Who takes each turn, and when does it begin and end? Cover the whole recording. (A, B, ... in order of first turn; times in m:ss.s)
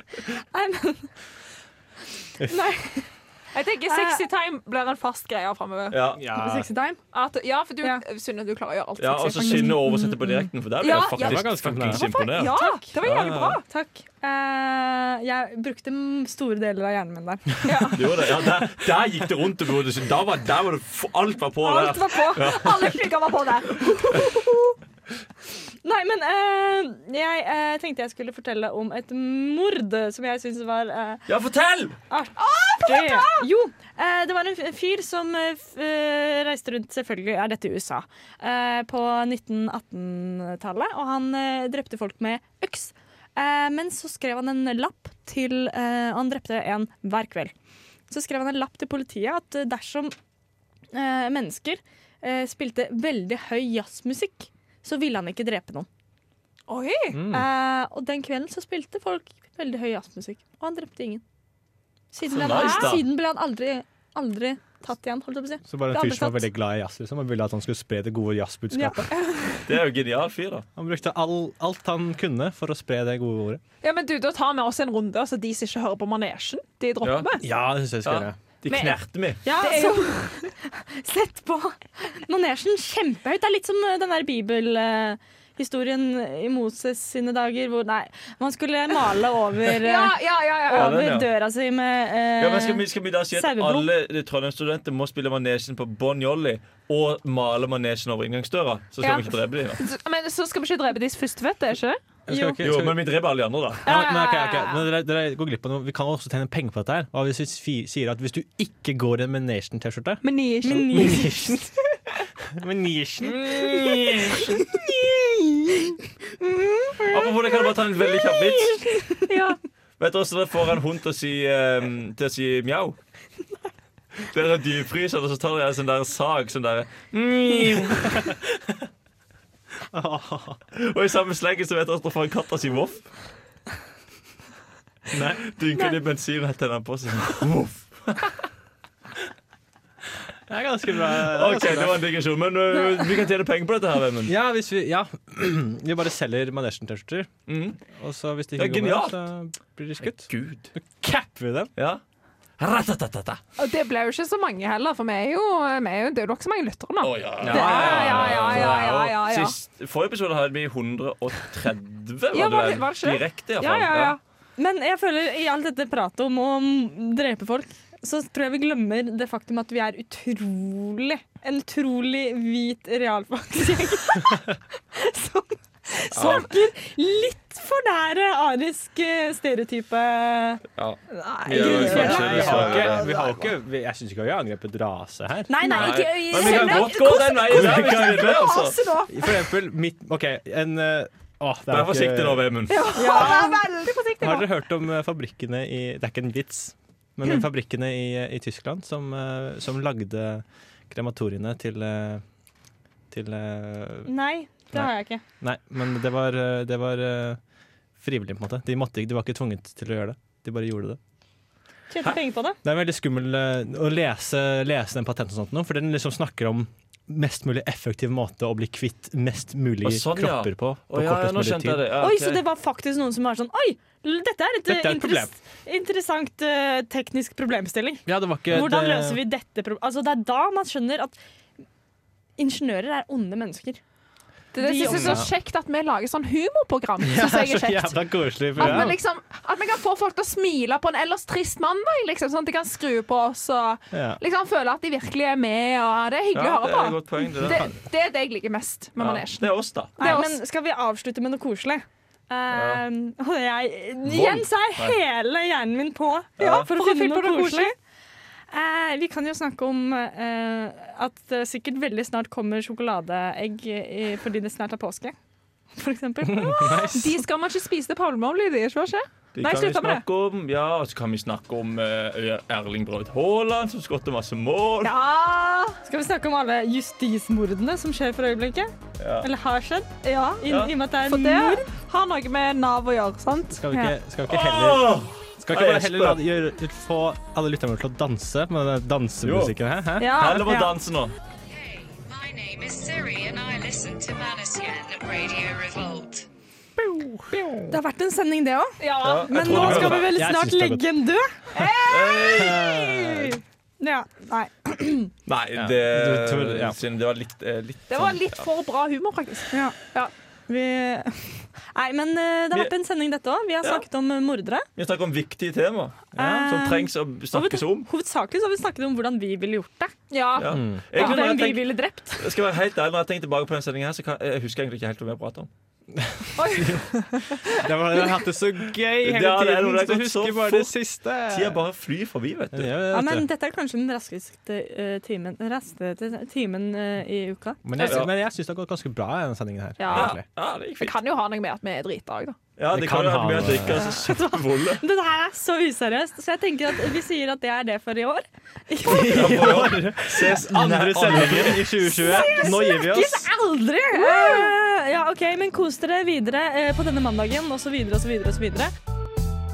0:00.2-0:01.1 A
0:02.5-0:03.1 A
0:03.5-0:06.0 B
0:03.9-0:04.2 A
0:05.9-0:06.2 C
0:06.2-0:06.7 D
0:06.3-0:07.0 A
0:07.1-0:09.8 B
0:09.0-0:13.6 C
0:09.4-0:10.5 A
0:10.8-0:13.6 B
0:11.2-0:12.2 D
0:12.6-0:13.1 A
0:13.7-0:17.9 A
0:17.6-0:18.1 B
0:17.9-0:23.0 C
0:21.6-0:22.5 A
0:22.3-0:24.8 B
0:25.8-0:31.2 A
0:31.3-0:32.0 C
0:32.1-0:47.5 A
0:32.4-0:33.4 B
0:48.1-0:50.1 A
0:50.9-0:55.9 A
0:56.7-0:57.2 B
0:57.1-0:57.4 D
0:57.3-1:01.2 A
1:02.1-1:06.4 A
1:02.3-1:03.0 C
1:02.4-1:03.0 B
1:05.6-1:09.1 D
1:08.7-1:09.1 A
1:09.4-1:09.6 B
1:09.6-1:10.6 C
1:10.8-1:13.6 D
1:13.8-1:17.4 B
1:17.0-1:17.3 C
1:17.4-1:18.4 D
1:18.0-1:19.4 C
1:18.7-1:30.1 A
1:19.5-1:20.2 B
1:29.8-1:31.1 B
1:30.7-1:31.3 C
1:30.7-1:33.9 A
1:32.4-1:39.8 C
1:39.0-1:42.0 B
1:42.3-1:43.1 D
1:42.3-1:42.6 A
1:42.6-1:43.8 C
1:43.8-1:51.7 D
1:43.8-1:44.8 B
1:50.2-1:51.3 B
1:50.6-1:51.6 A
1:52.5-1:54.2 D
1:53.3-1:54.6 C
1:56.6-1:57.1 A
1:57.1-1:59.0 C
1:58.3-1:59.2 A
1:59.3-1:59.6 B
2:00.0-2:03.0 C
2:04.3-2:08.4 C
2:08.1-2:08.4 D
2:09.9-2:10.6 D
2:10.7-2:13.0 C
2:15.1-2:18.4 C
2:20.5-2:22.1 D
2:21.1-2:24.3 C
2:24.2-2:27.3 D
2:27.5-2:27.8 C
2:27.9-2:31.7 D
2:28.6-2:29.2 C
2:30.0-2:30.7 C
2:31.8-2:32.0 C
2:32.6-2:33.4 C
2:33.6-2:39.5 B
2:37.0-2:44.2 C
2:37.4-2:39.1 D
2:42.3-2:44.2 B
2:44.6-3:00.6 A
2:56.1-2:56.5 C
3:00.8-3:03.0 C
3:01.1-3:03.5 B
3:01.5-3:06.0 D
3:05.5-3:07.6 A
3:05.7-3:08.8 C
3:06.4-3:09.4 B
3:07.4-3:08.5 D
3:09.1-3:12.5 D
3:11.7-3:12.9 C
3:12.7-3:14.5 B
3:12.9-3:13.6 A
3:14.2-3:22.2 D
3:23.1-3:24.1 D
3:24.0-3:25.2 A
3:24.7-3:27.4 D
3:28.0-3:31.0 D
3:31.9-3:32.6 A
3:32.6-3:41.8 D
3:39.8-3:42.4 C
3:42.0-3:51.2 A
3:44.6-3:45.3 D
3:48.0-3:49.2 D
3:52.4-3:53.8 A
3:54.5-3:58.0 B
3:54.6-3:55.2 A
3:54.8-3:55.3 D
3:57.0-3:59.0 D
3:58.5-4:10.4 B
4:03.9-4:04.2 D
4:06.3-4:07.7 C
4:09.0-4:10.2 C
4:10.0-4:17.7 A
4:12.5-4:12.8 C
4:14.0-4:15.0 C
4:16.4-4:16.7 C
4:16.4-4:17.7 B
4:18.5-4:25.1 A
4:25.8-4:26.9 A
4:26.2-4:27.2 D
4:26.9-4:30.0 B
4:29.4-4:35.0 C
4:34.8-4:35.8 B
4:35.8-4:41.6 A
4:39.0-4:39.3 C
4:40.0-4:43.7 B
4:40.5-4:40.7 C
4:43.5-4:50.4 D
4:44.3-4:46.2 C
4:49.2-4:49.5 C
4:50.0-4:50.7 A
4:50.1-4:51.1 C
4:51.5-4:56.2 E
4:57.0-4:57.4 D
4:57.7-5:01.3 A
4:58.8-4:59.8 B
4:59.0-5:00.1 C
4:59.3-5:01.0 D
5:01.5-5:03.2 B
5:01.8-5:03.2 C
5:02.2-5:03.3 D
5:03.8-5:05.1 A
5:05.2-5:08.4 C
5:05.6-5:06.8 D
5:07.9-5:10.1 B
5:09.5-5:09.9 A
5:10.5-5:14.6 A
5:14.8-5:17.9 C
5:16.2-5:16.5 D
5:16.2-5:20.0 A
5:20.1-5:21.3 B
5:20.4-5:25.5 C
5:20.5-5:20.8 D
5:21.0-5:22.2 A
5:25.9-5:31.6 D
5:26.4-5:27.6 B
5:29.0-5:32.7 C
5:32.5-5:33.3 D
5:32.9-5:37.6 A
5:37.6-5:40.2 D
5:37.8-5:38.1 C
5:39.8-5:40.1 B
5:39.9-5:40.9 C
5:40.8-5:42.4 B
5:42.6-5:44.8 C
5:42.7-5:44.0 D
5:43.9-5:49.3 A
5:48.8-5:53.3 D
5:49.1-5:51.8 C
5:51.9-5:58.7 A
5:52.0-5:52.5 B
5:54.0-5:54.5 B